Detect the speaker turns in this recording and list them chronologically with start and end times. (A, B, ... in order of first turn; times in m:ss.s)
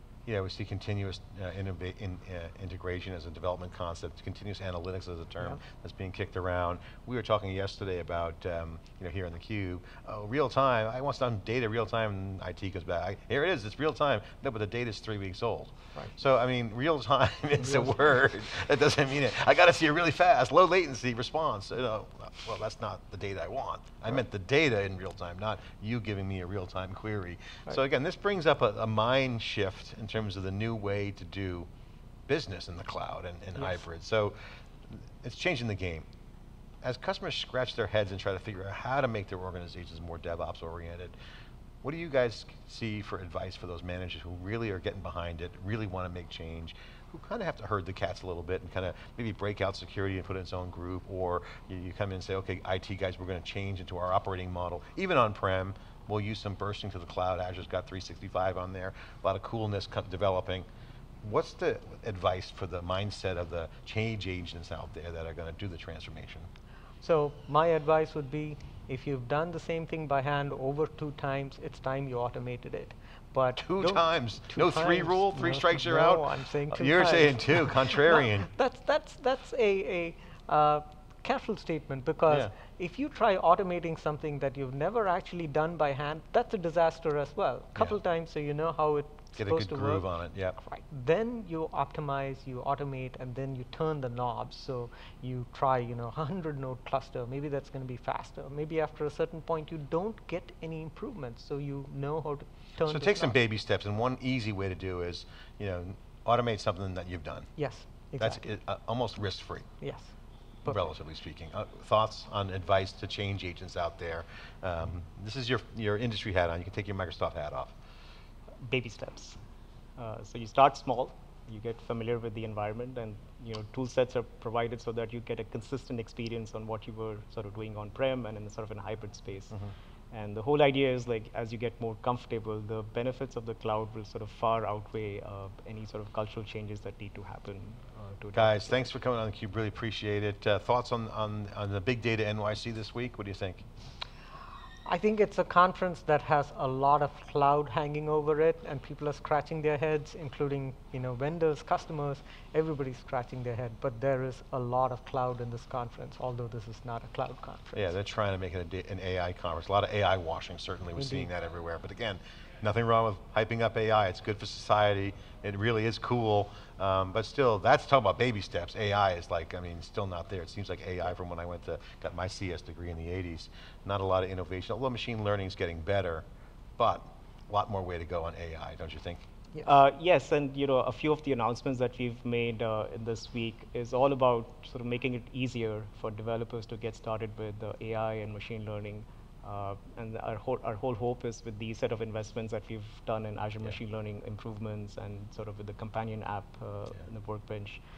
0:00.3-0:31.7 A
0:17.6-0:18.0 B
0:32.3-0:36.0 A
0:36.8-0:41.1 A
0:41.8-1:00.6 A
1:01.2-1:06.5 A
1:07.0-1:43.4 B
1:13.6-1:18.5 A
1:29.4-1:30.6 A
1:42.8-1:47.5 A
1:47.6-1:48.4 B
1:48.2-1:49.7 A
1:49.8-1:50.9 B
1:50.6-1:57.7 A
1:58.6-1:59.4 C
2:00.0-2:09.6 C
2:10.1-2:18.9 C
2:18.3-2:23.6 A
2:24.8-2:37.9 B
2:37.7-2:56.2 A
2:40.9-2:41.3 B
2:56.8-2:59.2 A
2:59.6-3:17.8 C